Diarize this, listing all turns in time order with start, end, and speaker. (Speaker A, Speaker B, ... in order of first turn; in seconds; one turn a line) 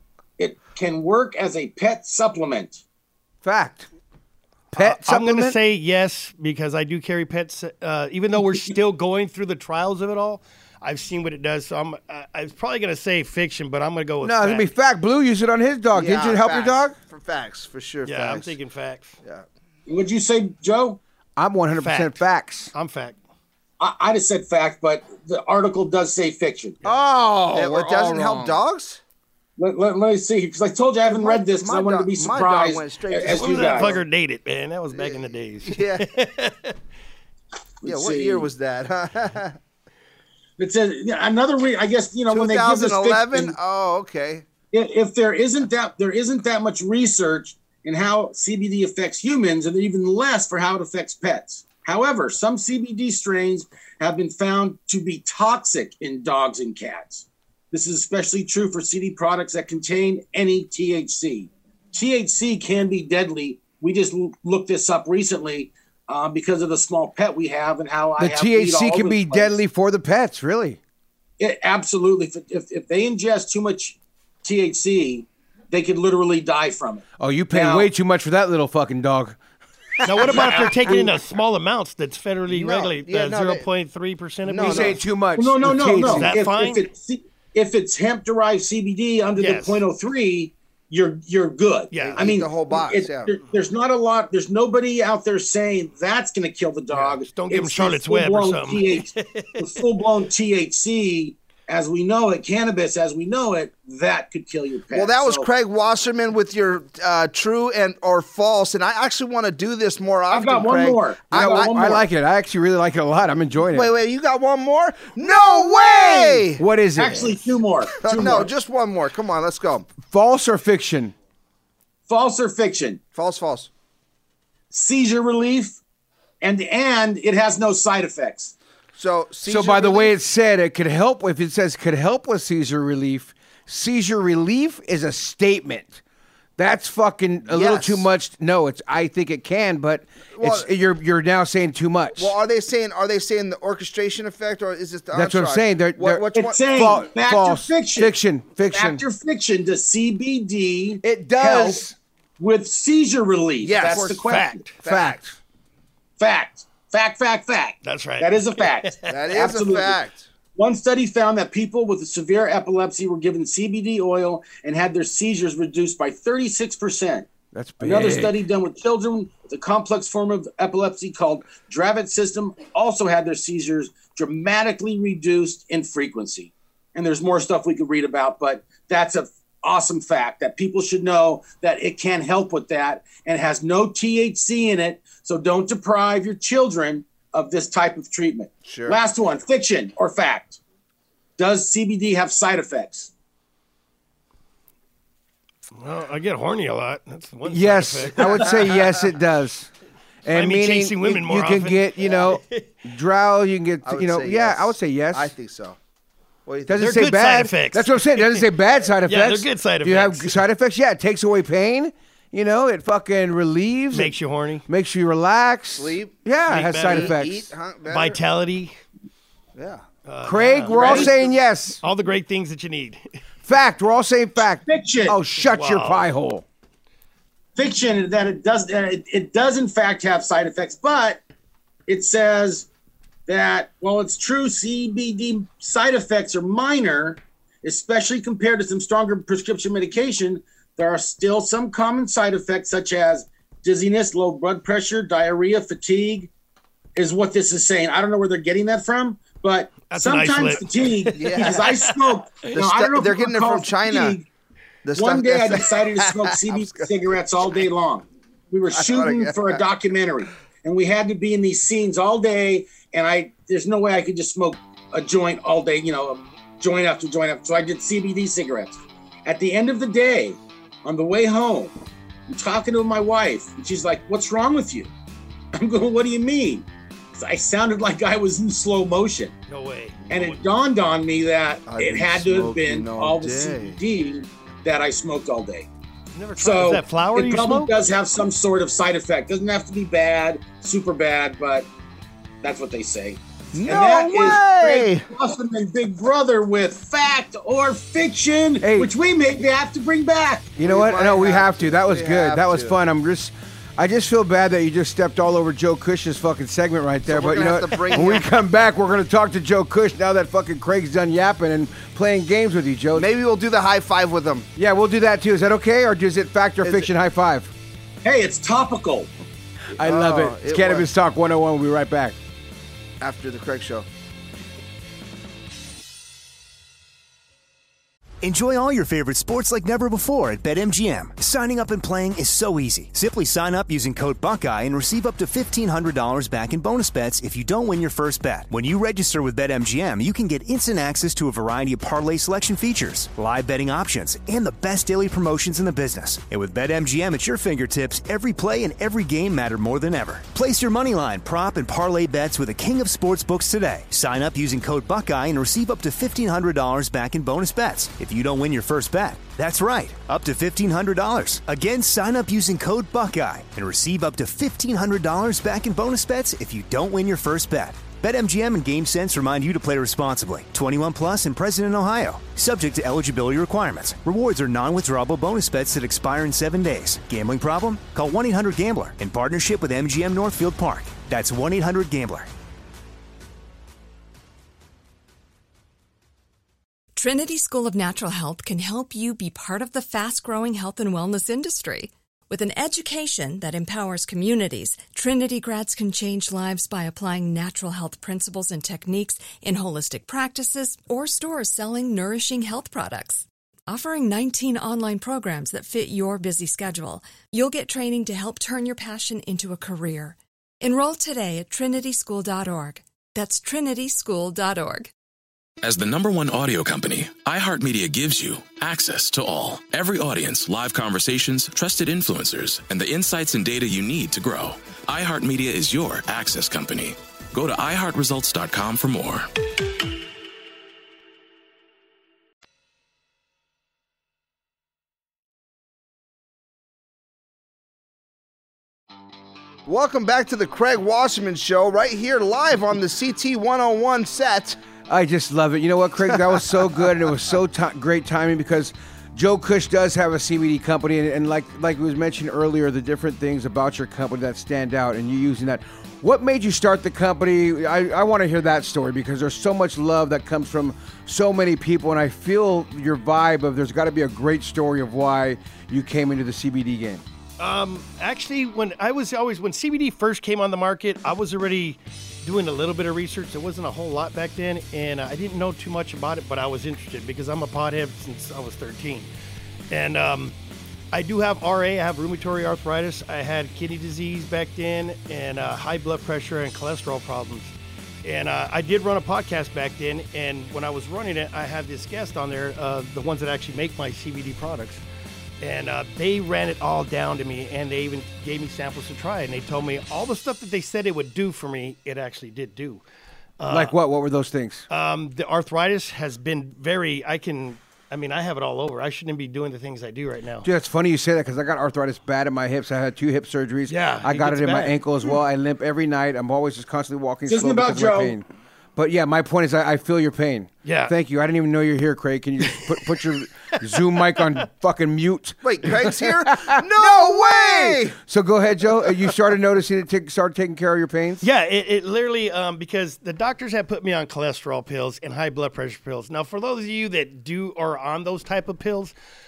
Speaker A: 0.4-2.8
Speaker B: 3.4-3.9
Speaker B: 4.7-5.6
Speaker C: 4.7-14.7
Speaker B: 14.2-16.9
Speaker D: 15.9-18.6
Speaker C: 18.0-19.2
Speaker A: 19.9-21.0
Speaker B: 21.4-22.7
Speaker C: 21.8-22.2
Speaker C: 22.7-23.2
Speaker A: 23.8-26.8
Speaker B: 26.8-28.6
Speaker D: 27.5-29.0
Speaker A: 29.6-34.0
Speaker D: 31.1-34.0
Speaker C: 33.2-36.8
Speaker D: 34.9-36.1
Speaker A: 37.8-38.5
Speaker D: 37.8-39.6
Speaker A: 40.6-43.5
Speaker D: 42.3-44.4
Speaker A: 44.7-69.6
Speaker B: 68.2-70.8
Speaker A: 71.4-77.9
Speaker B: 77.2-79.4
Speaker C: 80.0-85.0
Speaker A: 80.3-80.9
Speaker D: 82.5-83.7
Speaker D: 84.4-85.0
Speaker B: 84.6-86.3
Speaker A: 85.3-105.5
Speaker C: 86.1-86.8
Speaker C: 89.3-89.8
Speaker C: 91.9-92.4
Speaker D: 92.0-93.4
Speaker C: 96.9-99.8
Speaker D: 104.9-111.9
Speaker A: 110.3-112.0
Speaker B: 111.3-113.9
Speaker D: 113.7-116.6
Speaker B: 115.7-117.4
Speaker A: 117.0-118.5
Speaker D: 118.0-119.9
Speaker B: 120.0-121.1
Speaker A: 122.1-123.0
Speaker D: 123.1-123.7
Speaker A: 124.7-125.8
Speaker A: 126.4-128.5
Speaker D: 128.9-130.2
Speaker B: 129.4-136.0
Speaker B: 136.6-142.3
Speaker D: 137.5-138.1
Speaker D: 140.3-140.7
Speaker D: 142.2-147.0
Speaker B: 145.1-149.0
Speaker A: 146.3-148.1
Speaker A: 148.7-151.8
Speaker B: 151.0-151.9
Speaker A: 152.4-154.6
Speaker D: 153.6-155.2
Speaker C: 153.9-154.8
Speaker B: 154.8-155.3
Speaker A: 156.2-160.0
Speaker C: 157.8-159.5
Speaker D: 159.1-160.3
Speaker A: 160.6-167.3
Speaker B: 167.5-168.4
Speaker A: 167.8-190.6
Speaker D: 188.7-189.0
Speaker A: 191.4-193.1
Speaker C: 195.7-198.6
Speaker B: 197.4-199.7
Speaker D: 198.3-199.0
Speaker B: 200.2-205.3
Speaker C: 200.3-202.7
Speaker D: 203.8-205.8
Speaker D: 206.4-206.9
Speaker B: 206.7-214.1
Speaker C: 206.8-208.5
Speaker C: 209.0-210.4
Speaker C: 213.9-214.7
Speaker B: 214.7-217.5
Speaker D: 215.8-216.3
Speaker C: 216.5-217.2
Speaker D: 216.8-218.2
Speaker C: 217.9-218.7
Speaker D: 219.6-219.8
Speaker C: 220.0-221.1
Speaker B: 220.2-221.8
Speaker D: 220.7-221.1
Speaker A: 220.7-221.1
Speaker C: 221.8-223.0
Speaker B: 223.4-226.4
Speaker A: 224.6-225.2
Speaker C: 225.3-226.1
Speaker A: 227.6-231.2
Speaker A: 231.9-232.7
Speaker A: 233.3-246.3
Speaker A: 246.9-254.3
Speaker C: 249.9-252.5
Speaker D: 251.2-251.7
Speaker D: 252.5-254.2
Speaker D: 254.8-256.9
Speaker A: 254.9-271.7
Speaker D: 258.7-259.6
Speaker A: 272.3-274.9
Speaker A: 275.5-279.3
Speaker C: 279.5-280.1
Speaker A: 280.1-285.7
Speaker D: 281.7-283.8
Speaker C: 286.1-287.7
Speaker A: 286.4-291.7
Speaker A: 292.4-300.5
Speaker D: 293.5-295.0
Speaker B: 298.6-298.9
Speaker B: 300.6-313.1
Speaker D: 300.6-302.8
Speaker D: 307.1-308.4
Speaker D: 312.9-314.5
Speaker B: 314.6-317.5
Speaker D: 316.6-316.9
Speaker A: 318.0-319.1
Speaker B: 319.8-322.1
Speaker D: 319.8-320.9
Speaker D: 323.0-323.9
Speaker E: 328.2-382.3
Speaker F: 386.9-414.9
Speaker G: 415.6-429.3
Speaker D: 439.6-444.6
Speaker B: 444.9-467.0
Speaker C: 467.4-479.1
Speaker C: 479.7-480.4
Speaker C: 480.9-487.5
Speaker C: 488.0-494.8
Speaker C: 495.4-502.8
Speaker C: 503.4-503.7
Speaker B: 503.5-504.6
Speaker C: 504.7-510.5
Speaker B: 510.4-518.2
Speaker C: 513.7-515.1
Speaker A: 517.3-518.1
Speaker B: 518.8-531.2
Speaker C: 520.6-520.9
Speaker D: 525.4-528.0
Speaker C: 531.2-538.9